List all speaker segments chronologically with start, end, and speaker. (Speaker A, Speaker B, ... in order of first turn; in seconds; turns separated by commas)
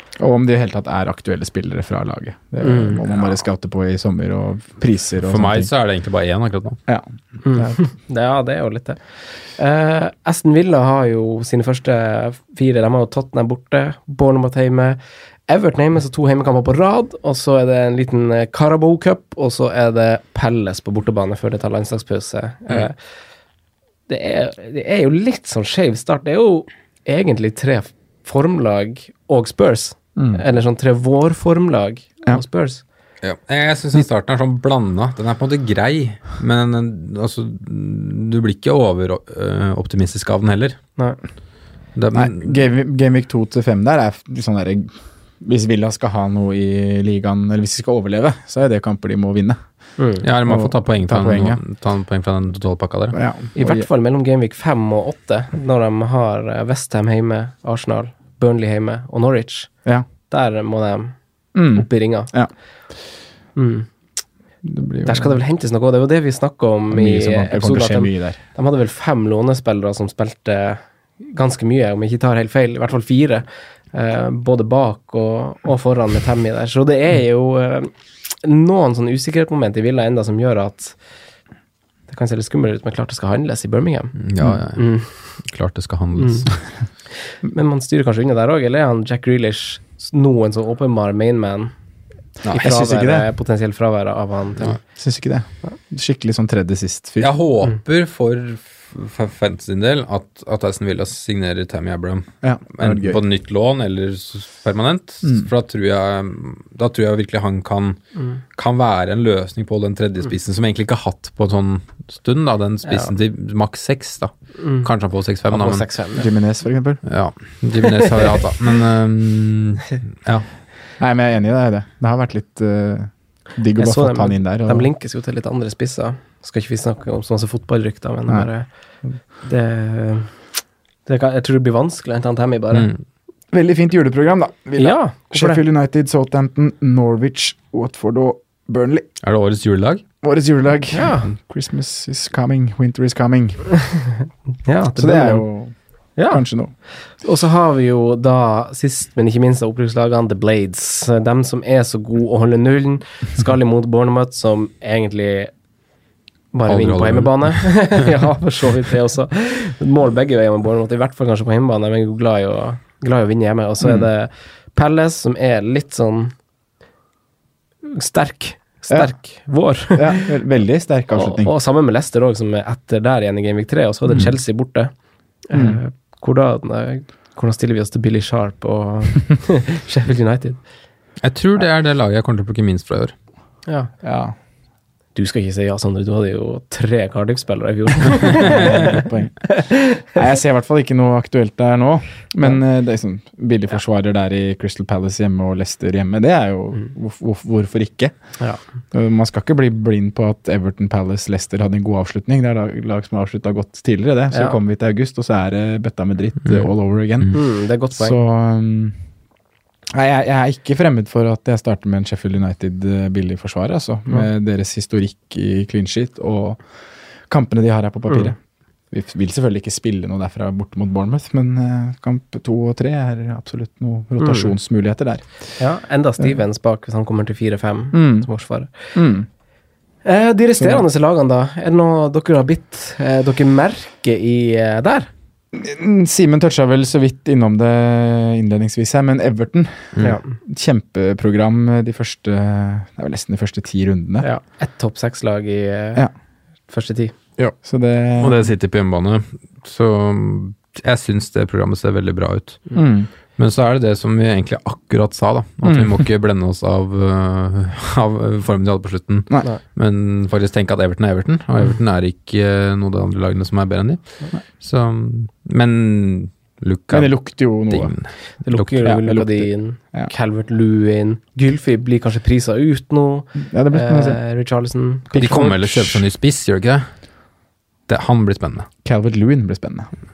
Speaker A: 0.2-5.7, Speaker B: 2.6-3.0, Speaker C: 5.2-6.8, Speaker A: 6.9-7.8, Speaker B: 7.4-22.9, Speaker B: 24.1-32.8, Speaker A: 30.2-30.4, Speaker C: 33.2-40.8, Speaker C: 42.0-42.6, Speaker A: 42.1-49.6, Speaker B: 50.0-50.2, Speaker C: 50.2-53.2, Speaker A: 50.5-51.6, Speaker A: 53.1-53.9, Speaker B: 53.6-59.7, Speaker B: 60.3-61.1, Speaker A: 61.5-62.5, Speaker B: 61.7-62.3, Speaker B: 63.6-63.9, Speaker A: 64.6-65.4, Speaker B: 65.0-77.9, Speaker A: 66.9-68.4, Speaker B: 78.4-81.0, Speaker B: 82.1-84.2, Speaker C: 84.2-86.6, Speaker B: 84.7-85.1, Speaker B: 86.2-86.5, Speaker B: 87.5-91.7, Speaker A: 92.5-93.3, Speaker B: 92.5-94.8, Speaker A: 94.9-97.3, Speaker C: 97.2-108.0, Speaker A: 102.4-103.2, Speaker C: 108.5-115.8, Speaker B: 112.9-113.1, Speaker B: 114.6-114.9, Speaker B: 115.5-116.3, Speaker A: 116.1-117.0, Speaker C: 117.1-120.5, Speaker A: 121.0-124.9, Speaker B: 123.8-128.7, Speaker B: 129.4-130.3, Speaker B: 131.1-132.9, Speaker C: 132.7-133.0, Speaker A: 133.5-139.1, Speaker B: 134.8-135.6, Speaker C: 139.2-140.0, Speaker A: 140.2-143.6, Speaker B: 140.9-141.3, Speaker B: 144.7-145.5, Speaker A: 144.9-145.7, Speaker B: 146.2-146.4, Speaker A: 146.3-146.7, Speaker B: 147.2-155.5, Speaker B: 156.5-166.3, Speaker C: 156.7-157.9, Speaker B: 167.9-170.4, Speaker A: 169.9-171.5, Speaker B: 171.1-174.9, Speaker B: 175.5-180.6, Speaker A: 175.5-175.8, Speaker C: 181.2-183.1, Speaker B: 183.7-183.9, Speaker A: 184.0-184.3, Speaker B: 185.1-190.1, Speaker A: 188.4-198.1, Speaker A: 198.9-207.4, Speaker B: 204.3-204.6, Speaker B: 207.3-208.2, Speaker A: 207.9-209.0, Speaker A: 209.9-216.6, Speaker A: 217.3-218.4, Speaker A: 218.9-225.2, Speaker B: 224.2-224.5, Speaker B: 225.6-228.9, Speaker A: 227.9-228.3, Speaker A: 228.9-229.3, Speaker B: 230.1-235.1, Speaker A: 230.6-230.9, Speaker A: 235.5-244.3, Speaker B: 240.0-240.3, Speaker B: 244.2-246.1, Speaker B: 246.7-247.1, Speaker A: 247.6-248.5, Speaker C: 248.2-252.6, Speaker A: 252.7-253.1, Speaker C: 253.4-264.0, Speaker A: 255.6-256.0, Speaker C: 264.6-268.9, Speaker A: 266.9-267.9, Speaker B: 268.4-275.5, Speaker A: 268.8-270.1, Speaker A: 273.4-274.2, Speaker A: 275.1-276.0, Speaker C: 275.2-276.9, Speaker C: 277.9-278.7, Speaker A: 278.8-279.9